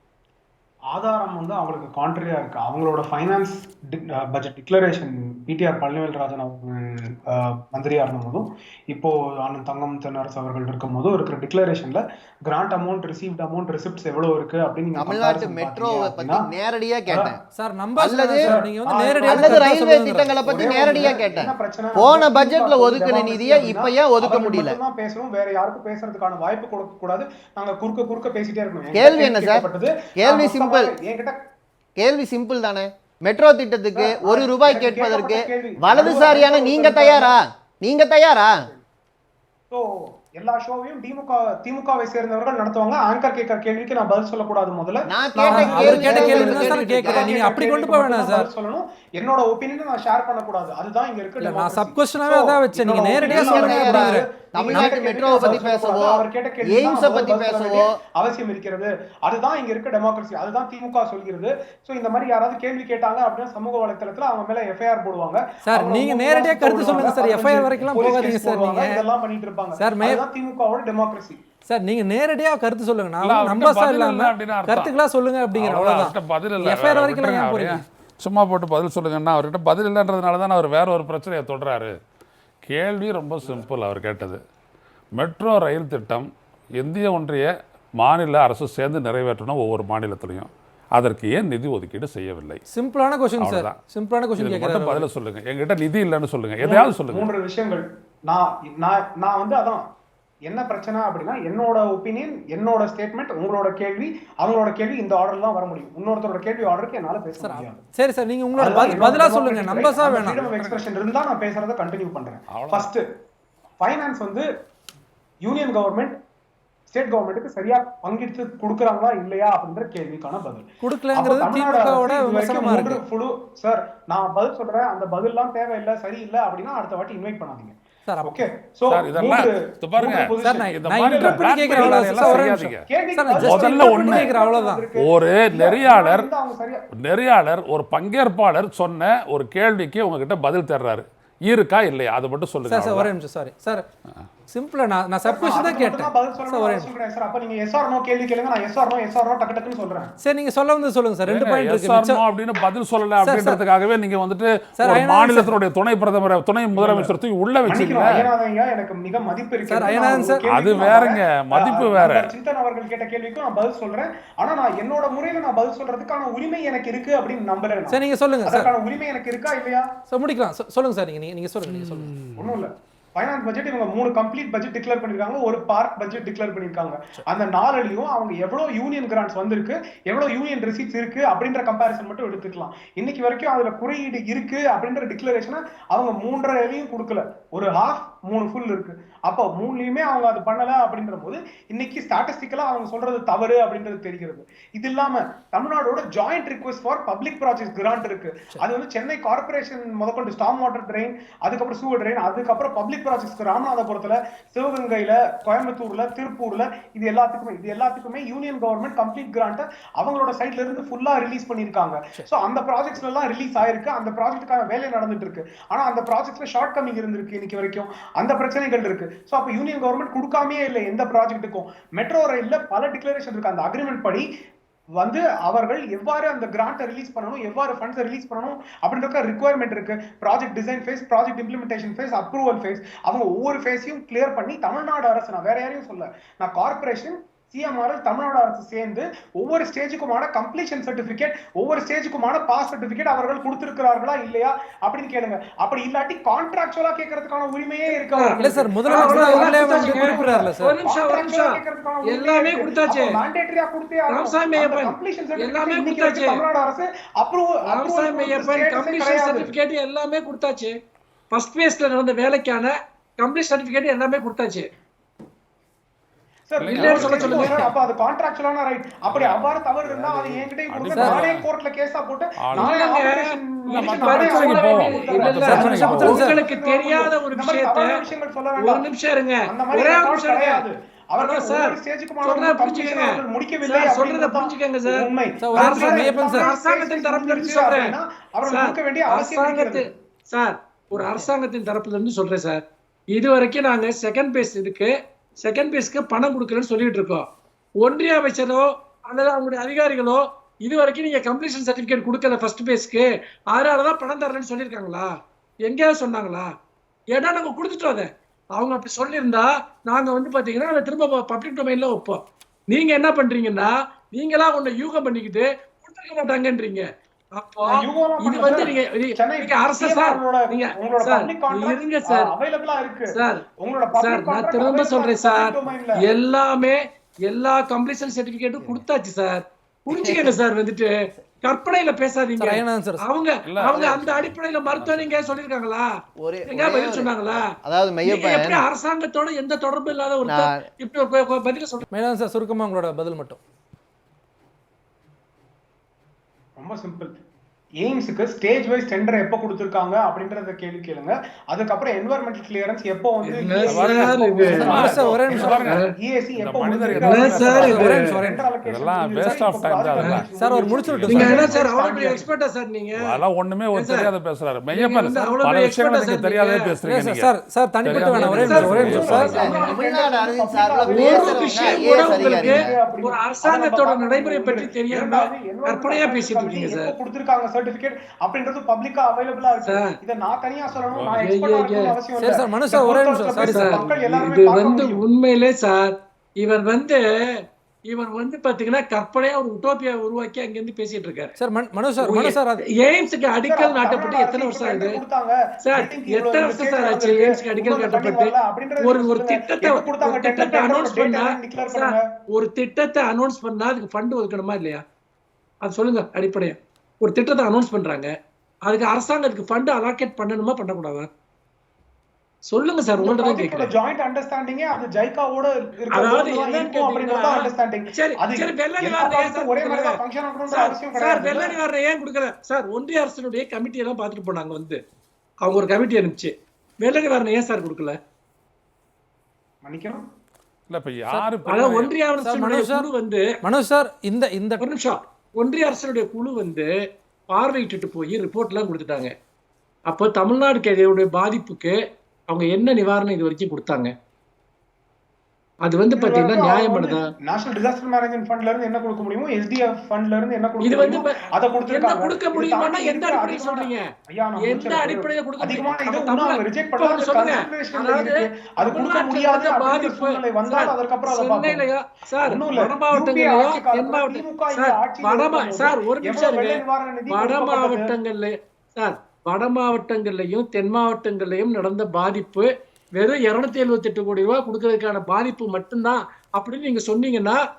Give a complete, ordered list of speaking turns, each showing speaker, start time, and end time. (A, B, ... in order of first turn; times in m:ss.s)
0:00.9-0:16.5 A
0:15.0-0:17.4 B
0:17.1-0:17.3 A
0:17.6-0:20.4 C
0:18.0-0:18.5 B
0:18.4-0:19.8 A
0:19.3-0:24.8 B
0:20.4-0:31.4 A
0:28.9-0:29.6 B
0:30.2-0:30.9 B
0:32.0-0:38.6 B
0:33.9-0:37.3 A
0:39.7-1:11.4 A
0:45.1-0:47.3 B
0:45.4-0:48.5 C
0:51.4-0:54.2 C
0:53.2-0:57.9 B
1:05.6-1:09.0 C
1:09.8-1:10.2 C
1:11.7-1:17.8 C
1:13.2-1:15.0 D
1:15.5-1:22.0 D
1:22.6-1:24.4 D
1:25.2-1:32.6 D
1:32.7-1:35.1 C
1:33.4-1:33.8 D
1:34.4-1:37.3 D
1:36.6-1:39.8 A
1:40.5-1:47.8 A
1:47.4-1:50.4 C
1:48.6-1:53.0 A
1:50.1-1:50.8 D
1:52.5-1:52.9 D
1:53.8-1:54.5 A
1:55.4-1:56.2 A
1:56.9-2:16.8 A
2:00.8-2:03.0 C
2:08.1-2:08.4 C
2:08.9-2:12.8 D
2:10.4-2:14.8 C
2:13.4-2:14.3 D
2:15.0-2:16.3 D
2:17.0-2:23.1 D
2:22.7-2:23.8 C
2:24.5-2:26.9 C
2:25.3-2:30.1 A
2:30.2-2:32.2 C
2:31.3-2:38.2 D
2:33.2-2:33.6 C
2:34.8-2:35.5 C
2:36.8-2:37.2 A
2:37.7-2:49.9 A
2:39.7-2:40.4 C
2:40.5-2:42.3 D
2:47.9-2:48.7 C
2:50.1-2:52.1 C
2:52.4-3:44.3 A
3:45.0-4:19.5 A
4:07.9-4:08.3 E
4:08.4-4:10.8 C
4:08.9-4:11.5 E
4:12.1-4:13.1 E
4:14.1-4:16.4 E
4:17.7-4:20.7 E
4:21.3-4:24.7 E
4:26.5-4:38.8 A
4:26.6-4:27.7 D
4:26.7-4:27.7 E
4:29.1-4:31.5 D
4:30.9-4:31.3 C
4:32.4-4:32.7 D
4:32.6-4:37.9 E
4:33.7-4:36.2 D
4:35.4-4:36.4 C
4:38.6-4:40.6 E
4:39.5-4:49.9 A
4:41.2-4:43.1 E
4:43.6-4:45.0 E
4:45.4-4:46.5 C
4:45.6-4:47.9 E
4:48.5-4:52.6 E
4:53.1-4:57.3 E
4:57.8-5:05.1 E
5:05.7-5:06.5 E
5:07.1-5:16.8 E
5:17.4-5:22.3 E
5:17.7-5:26.0 A
5:23.2-5:23.4 E
5:24.0-5:25.5 E
5:26.0-5:26.8 E
5:27.3-5:30.9 E
5:29.9-5:30.3 B
5:31.4-5:35.8 E
5:32.4-5:33.0 C
5:33.4-5:35.4 D
5:36.2-5:38.6 B
5:36.5-5:37.4 E
5:38.0-5:41.8 E
5:40.2-5:40.6 B
5:41.9-5:43.4 C
5:46.6-5:47.2 A
5:47.8-6:02.3 A
5:53.2-5:55.9 E
5:53.7-5:55.8 D
5:54.5-5:55.7 C
5:56.4-6:01.7 D
5:56.9-5:58.2 E
5:57.5-5:58.4 C
5:59.2-5:59.5 C
6:00.4-6:01.5 C
6:01.1-6:03.2 E
6:03.0-6:07.3 D
6:03.7-6:04.1 E
6:04.7-6:06.7 E
6:06.8-6:09.4 C
6:07.8-6:09.6 D
6:07.9-6:09.8 E
6:08.5-6:25.0 A
6:09.2-6:12.7 B
6:10.9-6:16.9 E
6:20.9-6:21.3 D
6:21.2-6:21.9 E
6:22.2-6:23.8 C
6:23.4-6:25.9 E
6:26.4-6:27.0 E
6:27.9-6:31.3 E
6:31.4-6:32.6 C
6:32.0-6:35.0 E
6:33.4-6:42.0 A
6:35.6-6:44.8 E
6:45.6-6:48.1 E
6:48.7-6:51.1 E
6:52.5-6:53.7 E
6:53.0-7:01.6 A
6:55.9-6:57.4 E
6:58.0-6:59.9 E
7:00.5-7:04.8 E
7:05.5-7:08.0 E
7:09.6-7:10.0 A
7:10.7-7:11.9 D
7:11.4-7:13.2 E
7:12.2-7:12.9 C
7:13.4-7:14.7 C
7:14.6-7:16.7 E
7:17.3-7:19.1 E
7:19.9-7:21.8 E
7:22.3-7:23.9 E
7:25.6-7:27.0 E
7:25.9-7:41.6 A
7:30.6-7:31.1 E
7:31.7-7:33.8 E
7:34.4-7:57.4 E
7:42.2-7:47.9 A